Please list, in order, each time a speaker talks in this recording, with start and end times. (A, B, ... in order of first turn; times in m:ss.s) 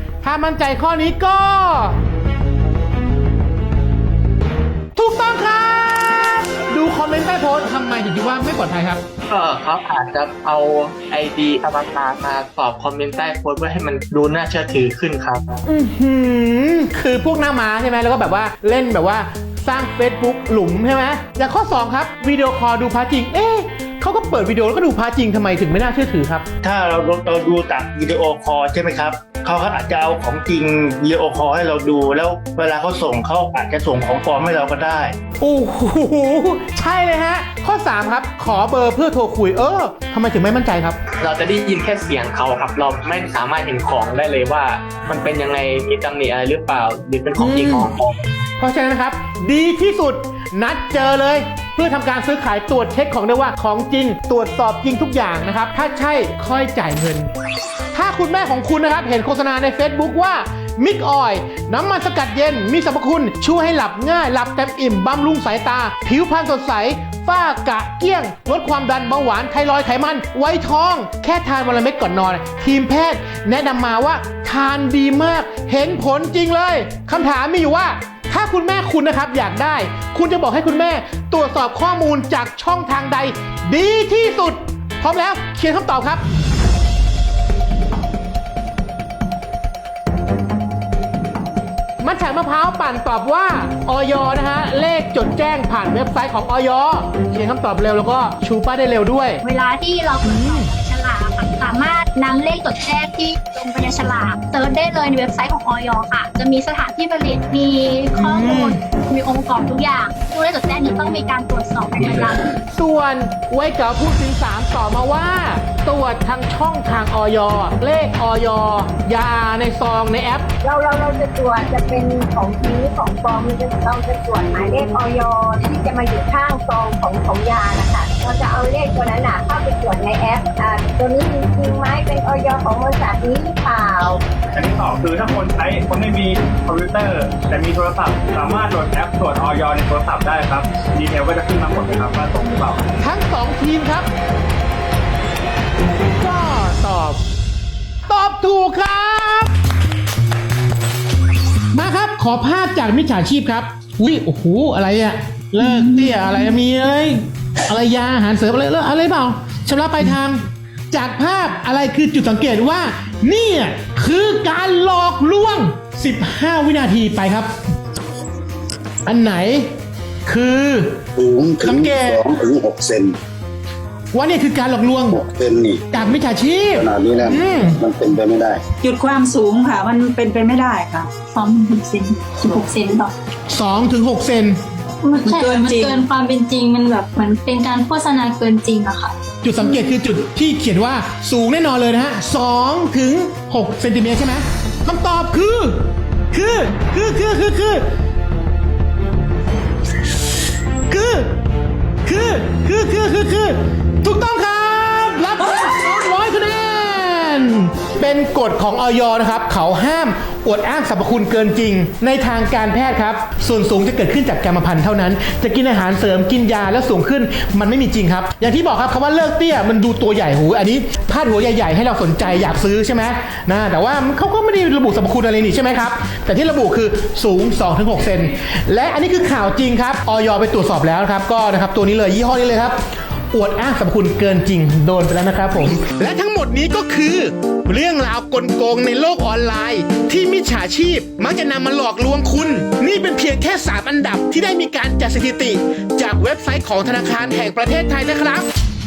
0:00.2-0:02.0 A
0:05.0-0:09.0 A
0:09.3-0:15.6 B
0:15.6-0:26.4 A
0:26.6-0:35.1 C
0:35.4-0:41.0 A
0:41.2-0:48.1 B
0:47.4-0:47.9 A
0:48.6-0:57.3 A
0:57.9-1:26.2 A
1:32.0-1:39.4 A
1:39.4-1:52.4 D
1:40.2-1:40.7 A
1:48.2-1:48.8 A
1:52.7-2:00.5 A
2:00.6-2:14.2 E
2:14.1-2:22.8 F
2:23.0-2:24.1 A
2:26.2-2:27.2 A
2:28.1-2:29.5 A
2:31.7-2:47.5 A
2:49.0-2:49.7 A
2:50.2-2:51.0 A
2:51.2-2:53.2 G
2:51.6-2:52.3 A
2:54.1-2:55.2 A
2:55.1-2:55.8 G
2:55.9-2:57.8 A
2:56.7-2:58.6 G
2:58.8-3:01.1 H
3:01.3-3:03.1 I
3:03.5-3:04.6 A
3:05.0-3:09.1 I
3:05.3-3:05.9 H
3:09.4-3:17.8 A
3:20.9-3:21.3 A
3:22.0-3:52.8 A
3:53.3-4:08.5 A